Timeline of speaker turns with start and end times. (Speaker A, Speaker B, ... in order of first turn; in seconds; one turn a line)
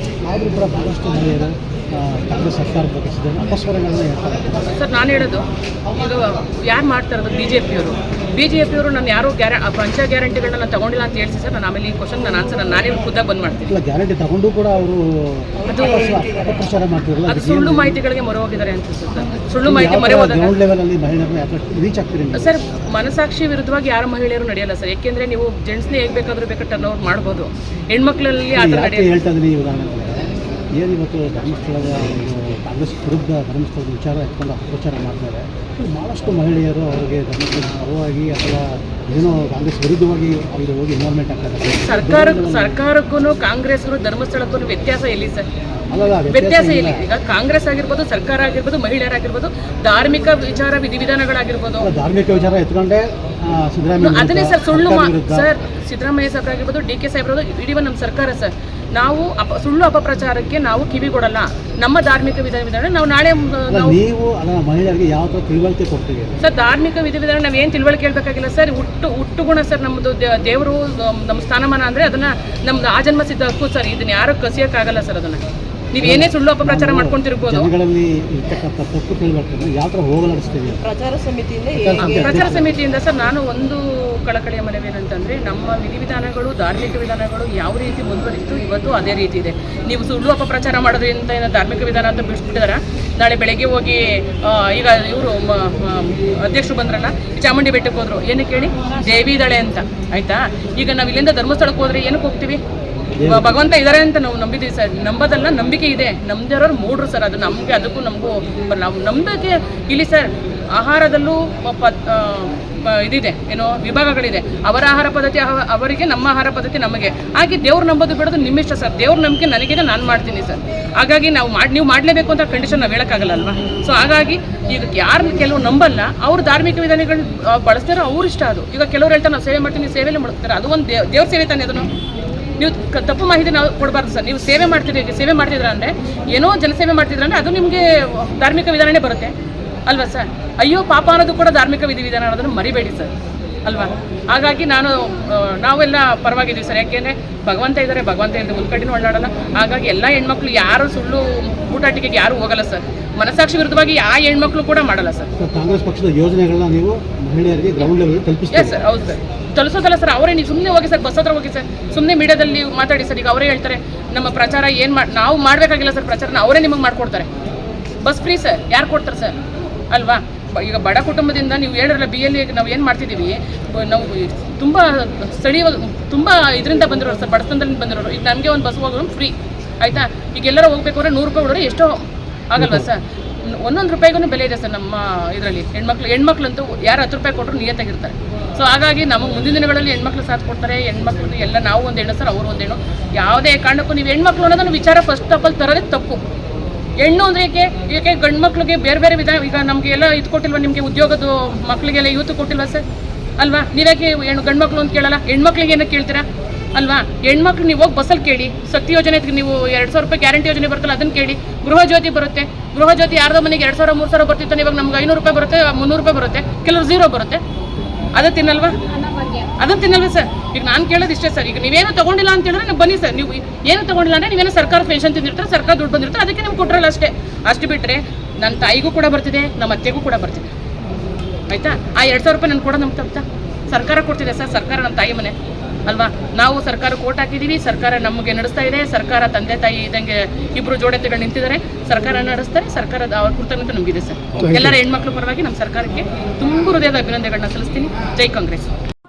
Speaker A: 0.3-4.8
Speaker B: 4.7-13.7
Speaker A: 13.7-18.0
Speaker C: 15.6-16.7
Speaker B: 15.7-16.2
Speaker B: 17.3-20.6
Speaker A: 19.6-22.6
Speaker B: 22.3-29.1
Speaker A: 28.5-42.8
Speaker B: 41.8-45.5
Speaker A: 45.7-47.1
Speaker B: 46.3-51.9
Speaker A: 51.8-55.5
Speaker B: 54.0-64.0
Speaker A: 63.7-66.3
Speaker B: 66.4-75.4
Speaker B: 75.9-77.7
Speaker A: 76.0-80.8
Speaker C: 80.8-82.5
Speaker A: 81.7-82.7
Speaker B: 82.0-102.6
Speaker A: 103.2-103.6
Speaker B: 103.3-131.9
Speaker B: 132.6-139.3
Speaker B: 139.9-143.1
Speaker B: 143.7-155.3
Speaker A: 155.4-158.8
Speaker B: 158.5-167.3
Speaker B: 168.0-169.4
Speaker B: 169.9-196.2
Speaker A: 182.6-182.9
Speaker B: 197.0-202.8
Speaker B: 203.4-217.4
Speaker B: 218.2-218.8
Speaker C: 219.0-219.4
Speaker B: 219.6-230.5
Speaker B: 231.5-235.3
Speaker B: 235.9-248.7